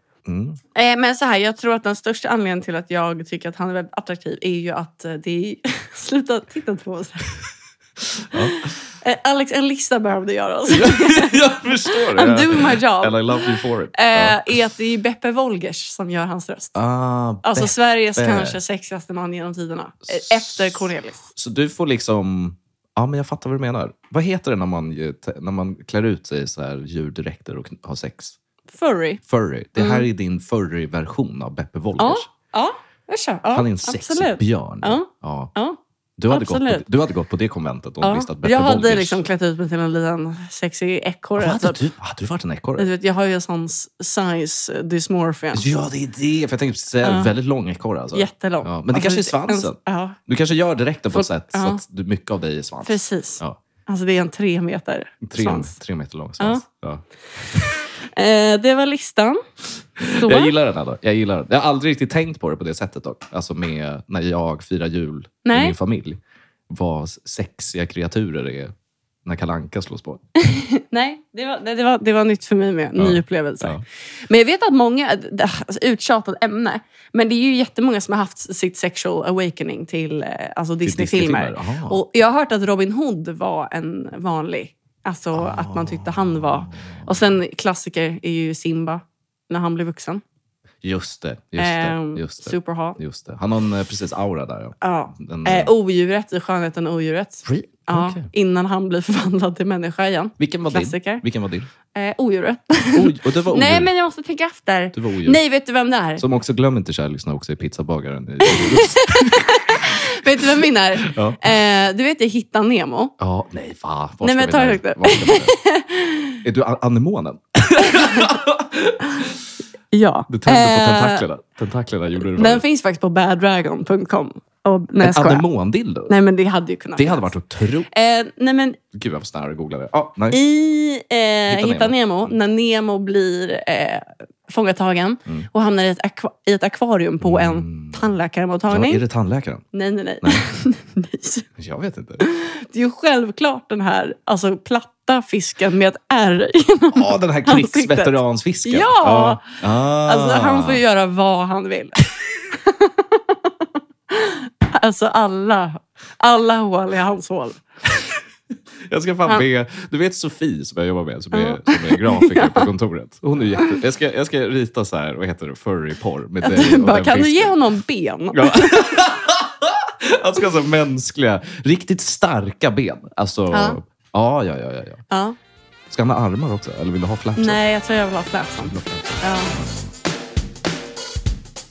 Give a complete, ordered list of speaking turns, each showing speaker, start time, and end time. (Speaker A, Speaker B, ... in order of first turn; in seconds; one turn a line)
Speaker A: 0.2-0.6
Speaker B: 0.7-7.3
Speaker A: 8.2-8.7
Speaker B: 8.3-16.8
Speaker A: 10.7-14.5
Speaker A: 16.7-18.6
Speaker B: 17.4-21.2
Speaker A: 20.1-28.4
Speaker B: 28.7-29.2
Speaker A: 29.3-32.2
Speaker B: 29.8-30.1
Speaker B: 32.0-35.8
Speaker A: 33.5-35.5
Speaker A: 36.2-39.2
Speaker B: 36.3-36.8
Speaker B: 38.0-41.8
Speaker A: 41.4-42.9
Speaker B: 42.8-45.7
Speaker A: 45.5-53.6
Speaker B: 47.0-47.3
Speaker B: 48.1-50.2
Speaker B: 51.1-51.8
Speaker B: 52.8-55.8
Speaker A: 55.2-57.7
Speaker B: 56.4-56.6
Speaker B: 57.5-59.4
Speaker A: 60.0-68.7
Speaker B: 60.2-60.5
Speaker B: 65.4-65.7
Speaker A: 69.2-70.2
Speaker B: 70.4-90.2
Speaker A: 73.0-73.8
Speaker A: 80.8-82.0
Speaker A: 85.3-87.2
Speaker A: 90.8-95.7
Speaker B: 91.6-93.0
Speaker B: 94.8-101.2
Speaker A: 97.5-98.2
Speaker A: 100.4-101.7
Speaker B: 101.9-106.2
Speaker A: 102.9-103.9
Speaker A: 104.9-105.4
Speaker A: 106.2-109.8
Speaker B: 108.4-113.1
Speaker A: 111.0-111.4
Speaker A: 113.2-115.5
Speaker B: 114.2-116.4
Speaker A: 116.4-119.5
Speaker B: 117.9-118.3
Speaker B: 119.9-121.2
Speaker A: 120.3-122.6
Speaker B: 122.3-125.5
Speaker A: 125.0-126.1
Speaker B: 126.1-127.3
Speaker A: 127.0-127.9
Speaker B: 127.9-128.8
Speaker A: 128.9-130.4
Speaker B: 130.3-139.0
Speaker A: 131.5-131.9
Speaker A: 137.2-138.1
Speaker A: 138.7-139.6
Speaker B: 139.7-141.4
Speaker A: 141.6-142.2
Speaker B: 142.2-153.5
Speaker A: 146.9-150.8
Speaker B: 154.1-157.6
Speaker A: 158.8-167.6
Speaker B: 161.3-162.7
Speaker B: 166.4-168.9
Speaker A: 168.3-175.0
Speaker B: 173.5-173.8
Speaker B: 175.1-175.3
Speaker A: 175.9-177.6
Speaker B: 177.4-179.5
Speaker A: 178.6-179.9